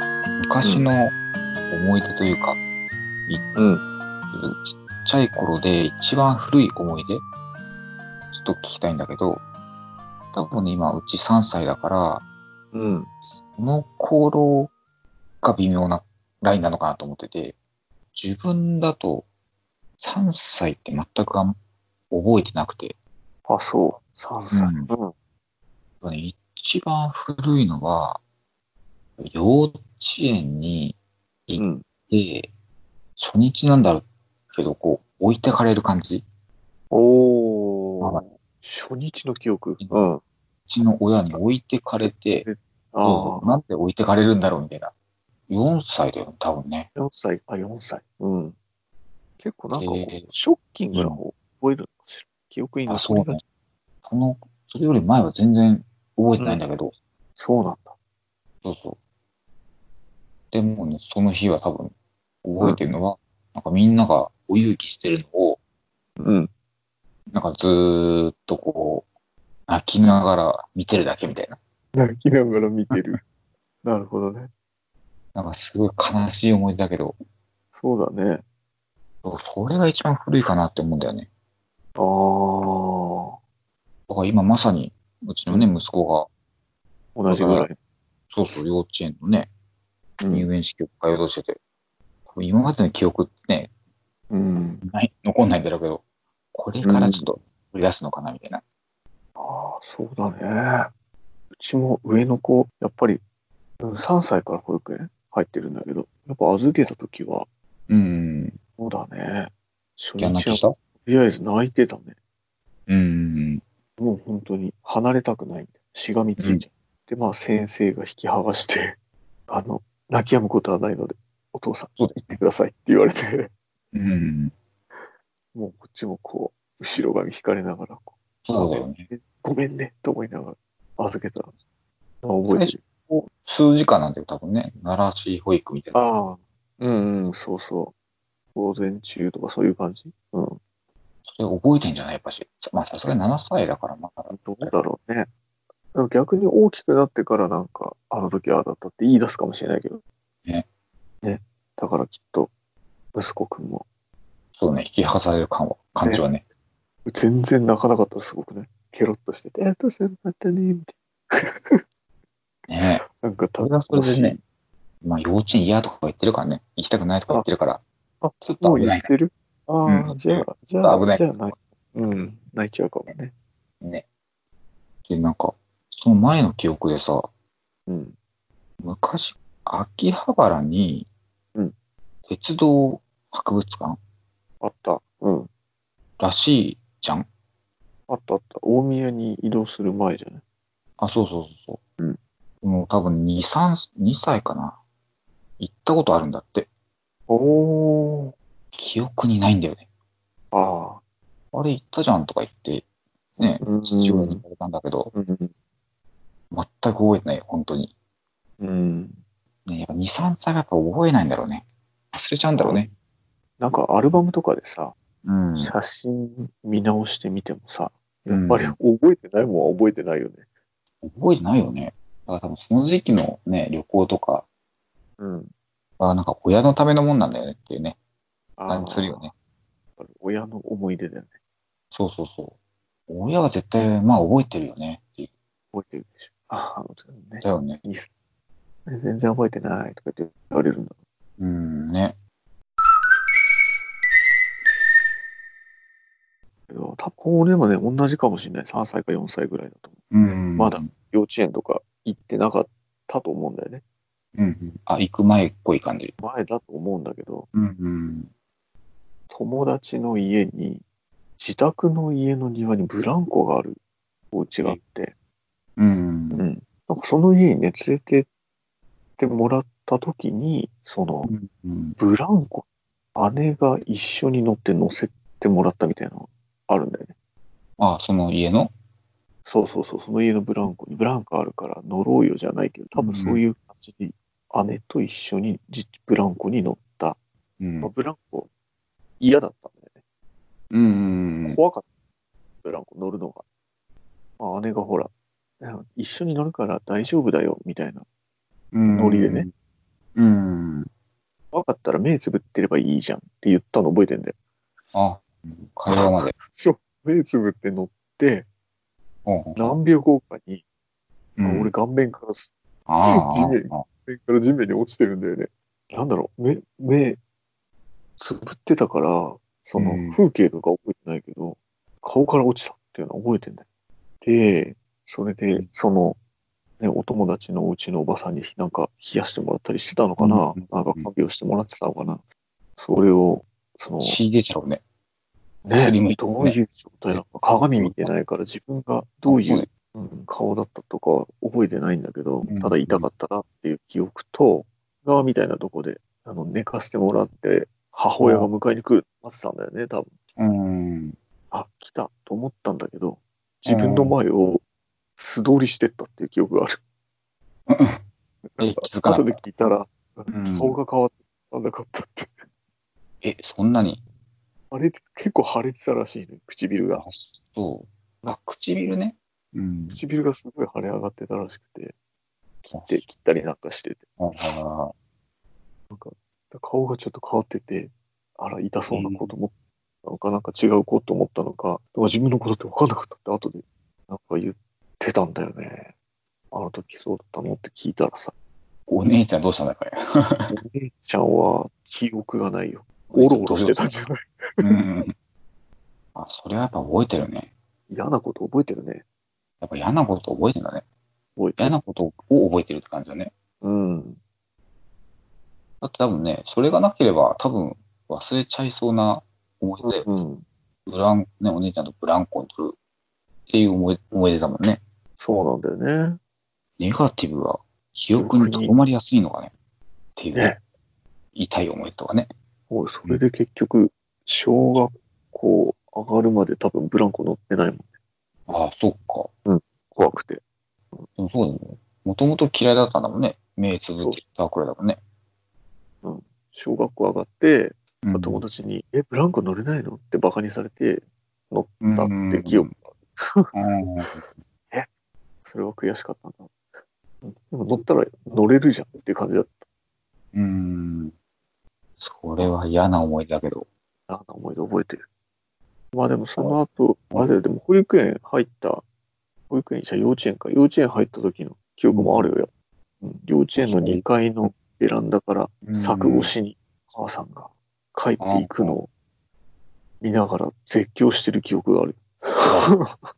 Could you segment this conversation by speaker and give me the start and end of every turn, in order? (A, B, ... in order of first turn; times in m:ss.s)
0:00.4-0:01.1 A
0:00.6-0:00.9 B
0:01.7-0:02.6 A
0:03.5-0:03.8 B
0:04.3-0:07.2 A
0:08.3-0:09.4 A
0:10.3-0:12.2 A
0:12.7-0:13.1 B
0:13.2-0:14.7 A
0:15.4-0:17.6 A
0:18.1-0:19.3 A
0:20.0-0:21.5 A
0:22.1-0:23.0 A
0:23.5-0:25.1 B
0:24.5-0:24.9 A
0:26.0-0:28.2 A
0:29.2-0:32.5 A
0:31.6-0:31.8 B
0:33.2-0:36.2 A
0:36.9-0:40.2 B
0:39.8-0:40.1 A
0:40.7-0:42.5 A
0:41.9-0:43.6 B
0:43.0-0:44.9 A
0:45.5-0:46.9 A
0:47.0-0:48.6 B
0:49.4-0:53.4 B
0:49.7-0:50.3 A
0:50.9-0:51.2 A
0:52.9-0:53.4 A
0:54.0-0:56.9 A
0:57.4-0:58.0 B
0:58.6-0:59.0 A
1:00.5-1:05.6 A
1:06.2-1:06.5 B
1:07.3-1:09.1 A
1:09.7-1:11.6 A
1:11.9-1:13.2 B
1:13.8-1:14.5 B
1:15.3-1:17.2 A
1:17.8-1:18.4 B
1:19.2-1:21.3 A
1:22.0-1:23.4 B
1:24.1-1:26.3 A
1:27.2-1:27.7 B
1:27.3-1:27.7 A
1:28.3-1:29.5 A
1:30.2-1:30.4 B
1:30.3-1:31.6 A
1:32.3-1:33.7 A
1:34.3-1:34.8 B
1:34.8-1:38.6 A
1:36.8-1:37.3 B
1:39.4-1:40.9 B
1:41.5-1:43.2 B
1:43.8-1:47.5 B
1:47.9-1:48.6 A
1:48.8-1:52.1 B
1:50.2-1:50.8 A
1:52.9-1:53.6 A
1:54.0-1:59.0 B
1:56.4-1:56.6 A
1:59.5-2:03.5 B
2:02.0-2:02.4 A
2:03.9-2:04.5 A
2:05.5-2:11.5 B
2:08.4-2:09.1 A
2:12.2-2:12.8 B
2:12.5-2:16.0 A
2:15.9-2:17.9 B
2:18.5-2:20.6 B
2:21.2-2:24.7 A
2:24.3-2:25.3 B
2:25.9-2:30.0 B
2:31.2-2:32.5 B
2:33.1-2:33.8 B
2:34.6-2:36.4 A
2:37.1-2:41.8 B
2:42.7-2:43.0 A
2:43.1-2:44.4 B
2:43.6-2:44.4 A
2:45.0-2:47.8 A
2:48.2-2:53.3 B
2:48.4-2:49.1 A
2:49.8-2:51.4 A
2:55.1-2:57.3 A
2:57.9-2:58.2 B
2:58.8-3:01.1 A
3:02.3-3:04.0 A
3:04.6-3:05.5 B
3:06.2-3:07.3 A
3:08.1-3:10.4 B
3:11.0-3:11.8 A
3:12.6-3:14.8 A
3:15.6-3:16.7 A
3:17.3-3:18.3 B
3:18.7-3:19.8 A
3:20.5-3:21.0 B
3:21.5-3:22.8 A
3:23.4-3:25.1 A
3:23.6-3:24.4 B
3:25.1-3:25.5 B
3:26.5-3:27.9 A
3:28.6-3:29.2 B
3:29.6-3:32.9 A
3:32.5-3:32.9 B
3:33.6-3:34.9 B
3:35.2-3:35.7 A
3:35.6-3:40.4 B
3:38.3-3:38.8 A
3:41.0-3:44.4 A
3:45.2-3:45.5 B
3:46.0-3:48.0 A
3:48.6-3:49.2 B
3:48.7-3:49.3 A
3:50.0-3:51.3 B
3:51.9-3:52.6 A
3:53.1-3:55.3 A
3:55.7-3:58.1 B
3:57.4-3:57.8 A
3:58.9-4:00.9 B
4:01.4-4:02.2 A
4:06.7-4:09.9 B
4:10.1-4:10.9 A
4:10.6-4:13.8 B
4:14.4-4:16.1 A
4:16.2-4:17.5 B
4:17.5-4:18.3 A
4:19.3-4:20.8 B
4:21.4-4:23.8 B
4:24.3-4:25.1 B
4:25.8-4:26.5 A
4:26.3-4:28.3 B
4:29.2-4:31.3 B
4:31.2-4:32.0 A
4:32.0-4:37.1 B
4:37.8-4:38.7 A
4:39.4-4:47.2 B
4:43.0-4:43.4 A
4:47.6-4:47.9 A
4:47.8-4:48.5 B
4:49.2-4:49.9 B
4:50.7-4:51.6 A
4:51.4-4:51.8 B
4:52.6-4:53.4 B
4:54.4-4:58.0 B
4:58.7-4:59.5 A
4:58.9-4:59.5 B
5:00.2-5:00.9 A
5:01.5-5:04.3 B
5:04.9-5:06.4 A
5:05.9-5:08.5 B
5:09.2-5:09.7 A
5:09.6-5:10.6 B
5:11.4-5:11.7 A
5:11.4-5:12.5 B
5:12.9-5:13.8 A
5:13.0-5:17.2 B
5:18.2-5:23.6 B
5:19.8-5:20.2 A
5:24.2-5:26.2 B
5:26.8-5:32.2 B
5:30.2-5:31.1 A
5:32.8-5:34.2 B
5:34.0-5:34.8 A
5:35.6-5:50.1 B
5:35.7-5:36.6 A
5:37.8-5:38.1 A
5:39.2-5:39.7 A
5:42.4-5:43.1 A
5:48.2-5:48.5 A
5:50.4-5:51.2 A
5:51.5-5:54.6 B
5:53.6-5:54.2 A
5:55.2-5:56.8 B
5:57.7-5:58.0 A
5:58.6-6:02.4 B
5:58.6-5:59.4 A
6:00.3-6:00.8 A
6:03.2-6:04.0 A
6:04.7-6:07.0 B
6:06.9-6:10.0 A
6:09.9-6:11.9 B
6:12.7-6:13.0 A
6:12.9-6:14.0 B
6:14.2-6:14.9 A
6:15.9-6:19.5 B
6:18.9-6:19.3 A
6:20.0-6:25.9 B
6:26.5-6:28.3 B
6:28.9-6:30.5 A
6:30.5-6:34.7 B
6:33.1-6:34.0 A
6:34.6-6:35.1 A
6:36.1-6:37.5 A
6:37.9-6:39.0 B
6:39.6-6:40.8 A
6:41.4-6:41.7 B
6:41.6-6:43.3 A
6:43.6-6:44.2 B
6:45.8-6:50.1 A
6:49.8-6:50.4 B
6:50.8-6:52.8 A
6:53.5-6:54.8 A
6:55.2-6:56.2 B
6:56.8-6:59.5 A
6:58.1-6:58.8 B
7:00.2-7:00.5 A
7:00.3-7:00.6 B
7:01.3-7:02.3 A
7:02.7-7:07.9 B
7:08.5-7:09.3 A
7:09.4-7:10.4 B
7:11.2-7:15.0 A
7:16.0-7:23.5 B
7:18.0-7:18.4 A
7:21.8-7:22.7 A
7:23.5-7:24.3 A
7:25.4-7:26.5 B
7:27.2-7:29.6 B
7:30.3-7:31.1 A
7:32.0-7:33.6 A
7:34.1-7:35.0 B
7:35.9-7:38.8 B
7:39.5-7:42.5 B
7:41.9-7:42.3 A
7:43.0-7:48.9 B
7:43.6-7:44.0 A
7:45.6-7:46.3 A
7:48.2-7:48.8 A
7:50.0-7:53.0 B